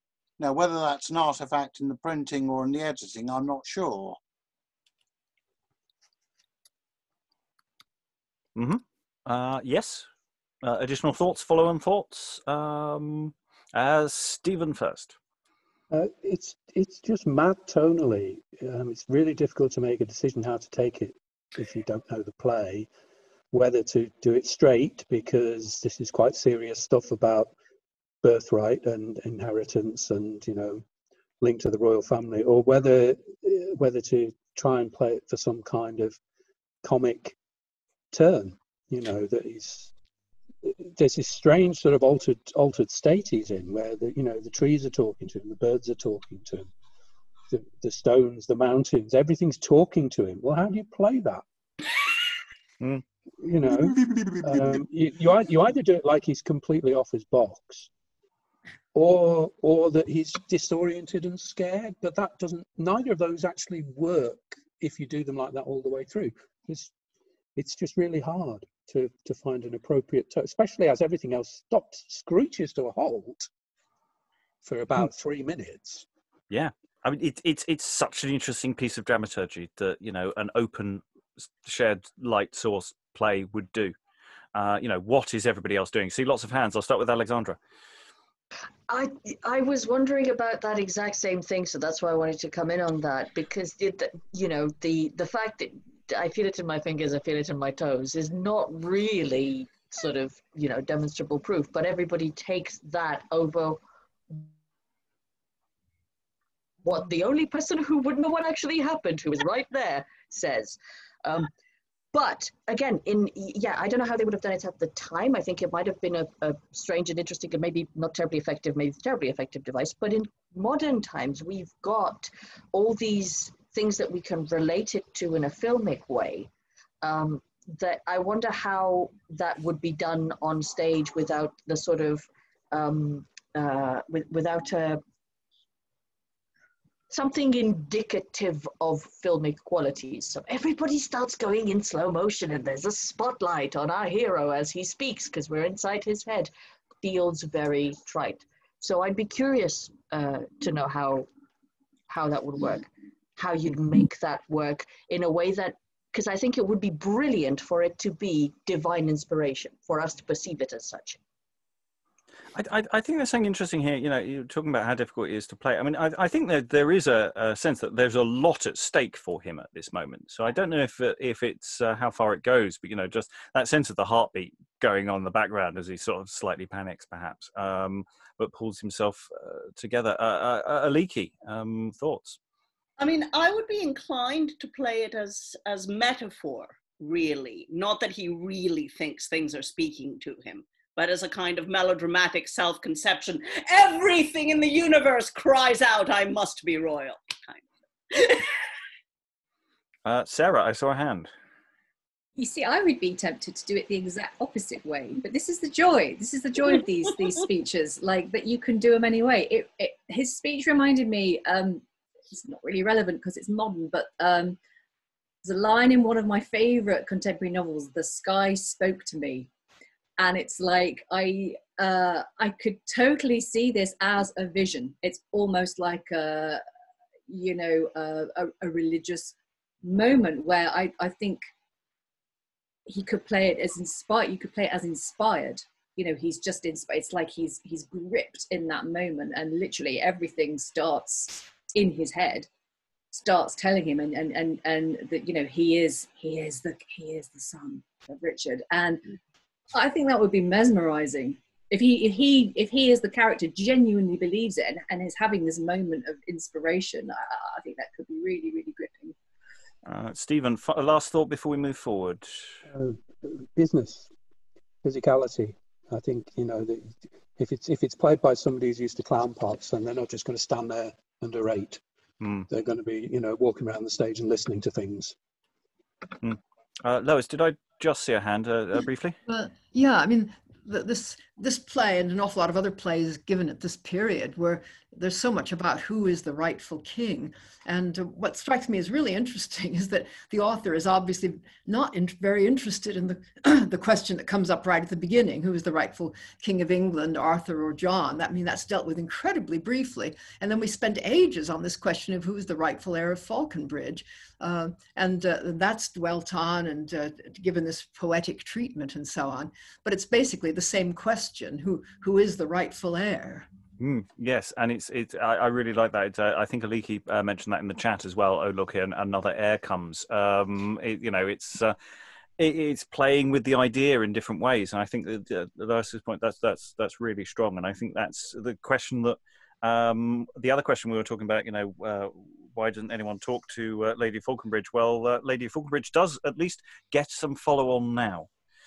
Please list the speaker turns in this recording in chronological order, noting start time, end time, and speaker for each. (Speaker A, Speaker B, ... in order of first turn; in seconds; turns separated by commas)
Speaker A: 0.4-4.2, Speaker B: 8.6-10.1, Speaker B: 10.6-15.2, Speaker C: 15.9-22.9, Speaker C: 23.5-27.5, Speaker C: 28.2-30.8, Speaker C: 31.4-36.2, Speaker C: 36.8-37.4, Speaker C: 38.1-39.9, Speaker C: 40.6-46.7, Speaker C: 47.5-51.4, Speaker C: 53.4-57.9, Speaker A: 53.9-54.6, Speaker C: 58.9-66.9, Speaker C: 67.6-73.5, Speaker C: 74.6-76.1, Speaker B: 76.5-81.0, Speaker B: 81.6-84.0, Speaker B: 84.5-87.6, Speaker D: 88.9-104.5, Speaker D: 106.8-111.5, Speaker D: 112.1-126.5, Speaker D: 127.0-135.0, Speaker D: 137.1-146.5, Speaker D: 147.0-151.3, Speaker D: 152.1-161.2, Speaker B: 162.5-182.4, Speaker E: 183.0-198.5, Speaker B: 200.1-201.3, Speaker F: 202.4-214.6, Speaker F: 215.4-219.5, Speaker F: 220.2-226.6, Speaker F: 227.3-231.4, Speaker F: 232.9-242.5, Speaker F: 243.1-249.1, Speaker F: 249.7-259.2, Speaker B: 259.9-262.6, Speaker C: 262.7-264.1, Speaker C: 264.8-271.8, Speaker B: 272.2-272.5, Speaker C: 272.5-275.2, Speaker B: 276.2-279.2, Speaker G: 279.3-313.5, Speaker B: 313.8-321.8, Speaker B: 322.4-338.3